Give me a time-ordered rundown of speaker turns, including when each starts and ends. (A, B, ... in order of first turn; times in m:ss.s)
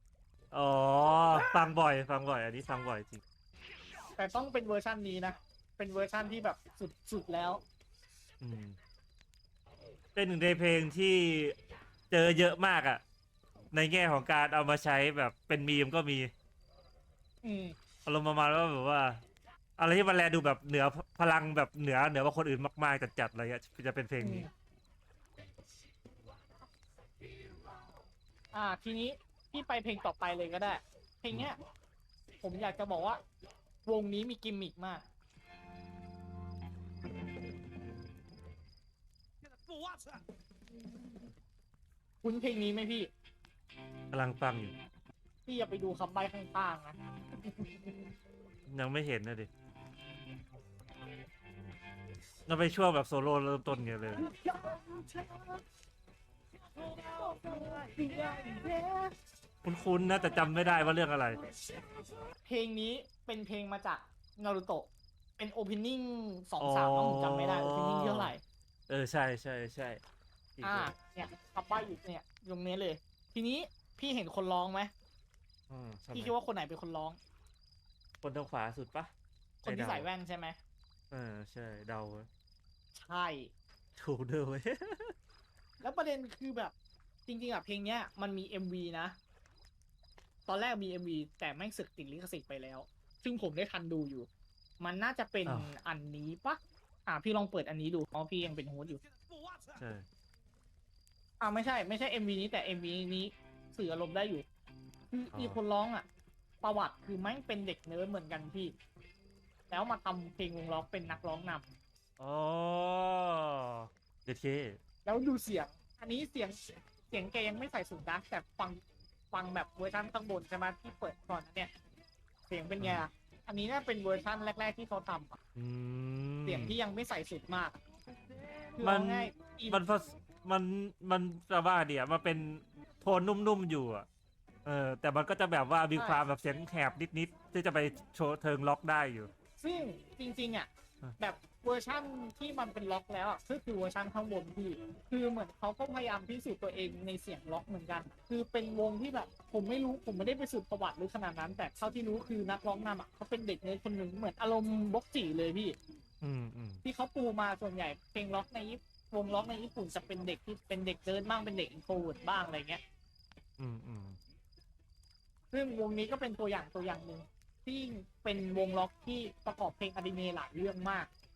0:00.5-0:03.2 A
0:04.1-0:07.6 B
0:08.4-0:08.8 A
0:10.1-0:11.6 A
0:12.1-0:13.0 A
0:13.7-0:16.3 A
0:17.4-0:17.7 B
0:18.0-0:19.2 A
0:19.8-0:24.5 A
0:24.2-0:24.5 B
0:28.5-0:31.6 B
0:32.4-0:33.2 B
0:33.8-0:35.0 B
0:42.2-0:43.1 B
0:44.1-0:44.7 A
0:45.4-0:47.0 B
0:47.5-0:47.8 B
0:48.7-0:49.5 A
0:52.4-0:54.3 A
0:54.1-0:55.6 B
0:56.8-0:59.1 B
0:59.6-1:01.4 A
1:02.4-1:08.4 B
1:06.6-1:08.3 A
1:08.9-1:10.0 A
1:10.6-1:10.9 A
1:10.6-1:14.9 B
1:15.7-1:16.3 A
1:16.1-1:17.2 B
1:18.2-1:19.1 A
1:19.6-1:20.1 A
1:19.6-1:20.6 B
1:21.1-1:22.3 A
1:22.9-1:23.5 B
1:24.0-1:25.1 A
1:25.8-1:26.7 B
1:27.2-1:29.2 B
1:30.4-1:34.3 B
1:34.8-1:39.0 B
1:35.4-1:35.7 A
1:39.7-1:40.0 A
1:41.4-1:44.4 B
1:45.1-1:46.1 B
1:46.6-1:48.7 B
1:49.7-1:51.6 B
1:52.2-1:54.8 A
1:55.0-1:58.8 B
1:59.3-2:01.7 B
2:02.5-2:05.4 B
2:02.8-2:03.0 A
2:05.5-2:06.8 A
2:06.4-2:07.8 B
2:08.8-2:09.8 B
2:08.8-2:14.1 A
2:14.6-2:19.3 A
2:15.9-2:16.2 B
2:19.6-2:35.8 B
2:36.2-2:36.8 A
2:36.8-2:42.8 B
2:43.6-2:44.2 A
2:45.5-2:51.1 B